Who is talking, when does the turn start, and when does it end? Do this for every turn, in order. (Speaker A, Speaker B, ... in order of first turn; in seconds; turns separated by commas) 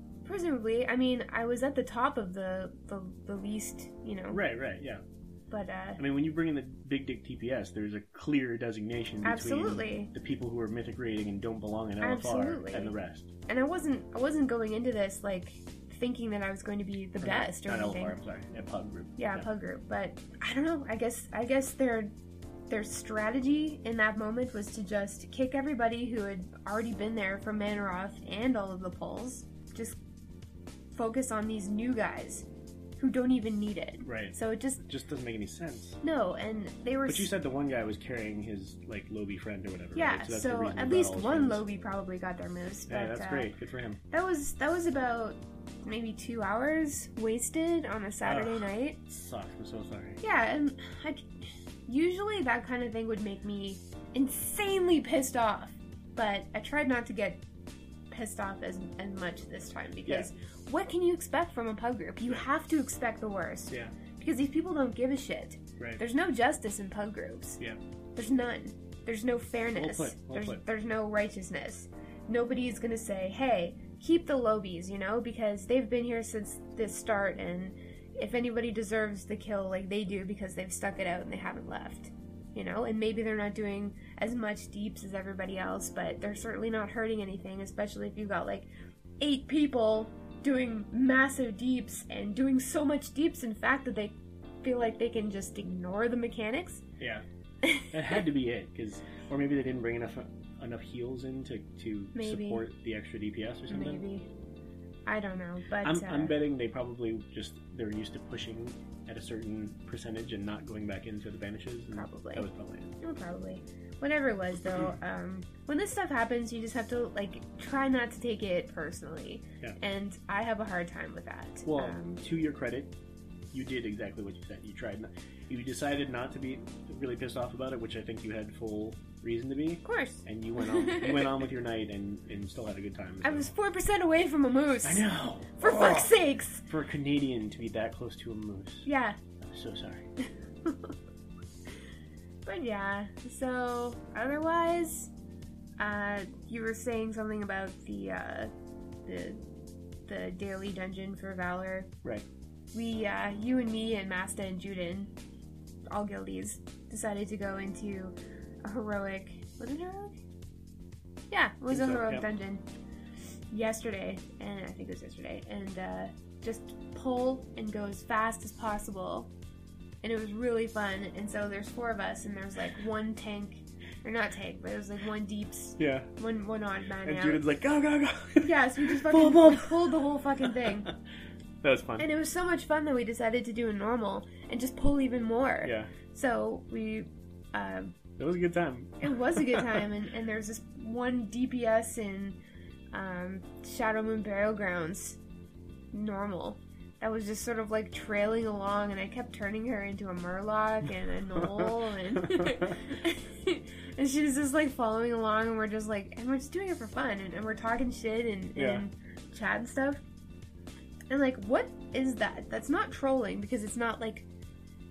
Speaker A: 0.2-4.4, Speaker B: 4.3-5.0, Speaker A: 5.5-6.0, Speaker B: 6.0-13.3, Speaker A: 9.2-10.1, Speaker A: 12.0-12.9, Speaker A: 13.5-18.2, Speaker B: 17.2-19.5, Speaker A: 19.2-22.1, Speaker A: 22.7-30.0, Speaker A: 30.9-32.5, Speaker A: 33.0-34.8, Speaker B: 34.0-36.0, Speaker A: 36.0-37.3, Speaker B: 37.1-41.6, Speaker A: 40.0-43.5, Speaker B: 42.9-44.0, Speaker A: 44.1-49.0, Speaker B: 48.2-50.2, Speaker A: 50.2-51.2, Speaker A: 51.9-57.4, Speaker A: 58.1-67.6, Speaker A: 68.2-88.7, Speaker B: 69.8-70.6, Speaker A: 89.2-96.8, Speaker B: 97.0-97.2, Speaker A: 97.6-97.9, Speaker B: 97.9-104.0, Speaker A: 102.2-102.6, Speaker A: 103.7-104.3, Speaker A: 105.1-106.4, Speaker B: 105.8-113.0, Speaker A: 111.9-112.5, Speaker A: 113.0-122.2, Speaker B: 121.7-122.9, Speaker B: 123.5-133.5, Speaker A: 129.8-131.4, Speaker A: 133.2-135.1, Speaker B: 134.8-136.2, Speaker A: 135.6-136.6, Speaker B: 136.7-138.9, Speaker A: 138.9-139.2, Speaker B: 139.4-140.1, Speaker A: 140.7-140.9, Speaker A: 142.5-145.1, Speaker A: 145.8-148.5, Speaker A: 149.1-149.4, Speaker A: 150.1-151.9, Speaker A: 152.7-155.1, Speaker A: 155.9-160.2, Speaker A: 161.3-162.6, Speaker B: 161.7-162.3, Speaker A: 163.5-169.3, Speaker A: 170.0-177.4, Speaker B: 175.8-176.1, Speaker B: 177.0-180.9, Speaker A: 178.4-180.9, Speaker B: 181.6-182.1, Speaker A: 182.0-187.9, Speaker B: 185.6-185.9, Speaker B: 188.2-189.9, Speaker A: 189.0-192.4, Speaker A: 192.9-195.2, Speaker A: 195.9-210.0, Speaker B: 201.4-202.7, Speaker B: 208.6-208.8, Speaker A: 211.1-214.3